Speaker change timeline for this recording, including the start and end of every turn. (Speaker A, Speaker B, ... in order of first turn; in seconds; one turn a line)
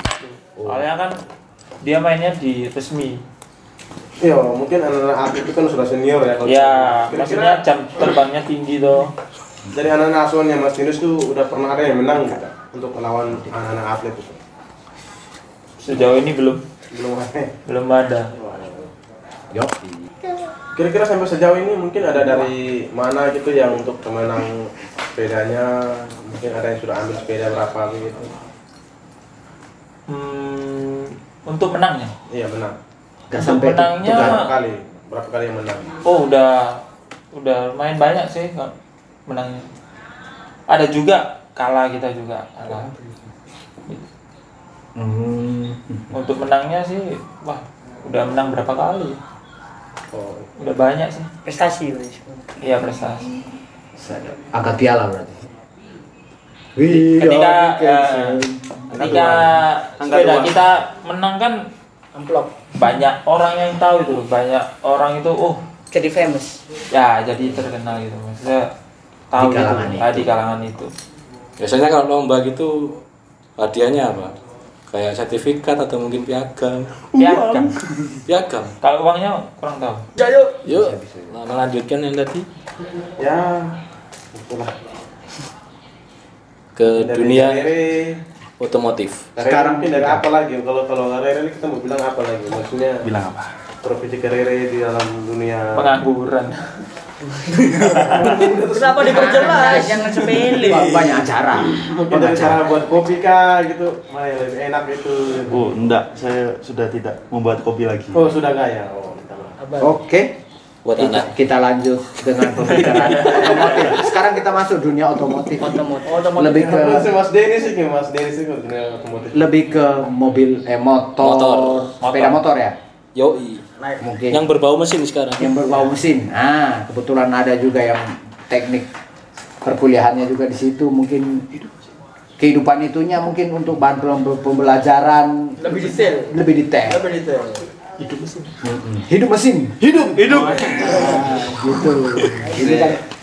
Speaker A: 0.2-1.2
Speaker B: 0.6-0.8
Speaker A: 1.8-3.2
Speaker C: 4.2-7.6
Speaker A: 6.5-9.1
Speaker C: 9.7-14.4
Speaker A: 15.8-16.6
Speaker C: 16.9-17.5
Speaker A: 17.7-18.3
Speaker C: 18.4-18.9
Speaker B: 19.5-20.4
Speaker C: 20.8-28.3
Speaker B: 22.1-22.5
Speaker A: 30.1-32.1
Speaker C: 32.3-32.8
Speaker B: 33.3-34.4
Speaker A: 33.4-34.5
Speaker C: 34.0-35.9
Speaker A: 36.0-36.8
Speaker A: 37.3-38.7
Speaker A: 39.3-39.7
Speaker A: 40.7-42.9
Speaker B: 45.0-46.1
Speaker A: 46.1-49.2
Speaker C: 50.1-50.4
Speaker A: 50.6-51.3
Speaker D: 51.5-52.5
Speaker A: 52.6-53.3
Speaker B: 54.0-55.4
Speaker B: 56.8-59.5
Speaker A: 56.9-61.6
Speaker E: 58.9-60.6
Speaker F: 62.1-62.6
Speaker A: 62.8-65.6
Speaker D: 65.9-66.6
Speaker A: 66.9-68.7
Speaker A: 69.3-70.9
Speaker B: 69.4-70.3
Speaker G: 71.6-73.0
Speaker G: 73.6-74.3
Speaker G: 74.9-77.0
Speaker E: 77.1-78.2
Speaker A: 77.2-77.8
Speaker G: 78.3-78.8
Speaker A: 78.8-80.1
Speaker F: 80.2-80.6
Speaker G: 80.7-82.5
Speaker B: 80.7-81.4
Speaker C: 83.2-83.8
Speaker C: 84.3-84.7
Speaker G: 86.8-87.7
Speaker C: 86.9-88.2
Speaker G: 88.6-89.2
Speaker B: 89.4-90.3
Speaker C: 89.4-93.0
Speaker E: 93.0-93.5
Speaker C: 93.8-95.9
Speaker A: 95.8-96.6
Speaker F: 97.4-100.4
Speaker C: 97.8-99.9
Speaker B: 99.1-99.9
Speaker D: 99.1-101.2
Speaker B: 100.5-102.7
Speaker C: 101.7-105.8
Speaker E: 105.5-108.3
Speaker C: 108.1-109.6
Speaker F: 109.6-110.0
Speaker B: 109.8-110.4
Speaker G: 110.8-111.3
Speaker B: 111.0-117.1
Speaker A: 112.8-113.5
Speaker D: 115.6-116.1
Speaker F: 116.0-117.0
Speaker C: 116.7-119.5
Speaker B: 119.3-122.8
Speaker G: 121.2-121.9
Speaker A: 122.0-122.4
Speaker G: 123.2-123.6
Speaker B: 124.0-124.4
Speaker G: 124.3-125.6
Speaker B: 125.4-128.9
Speaker B: 129.6-131.4
Speaker B: 132.4-137.1
Speaker F: 135.6-137.6
Speaker B: 138.6-143.0
Speaker E: 139.8-143.0
Speaker F: 142.4-142.8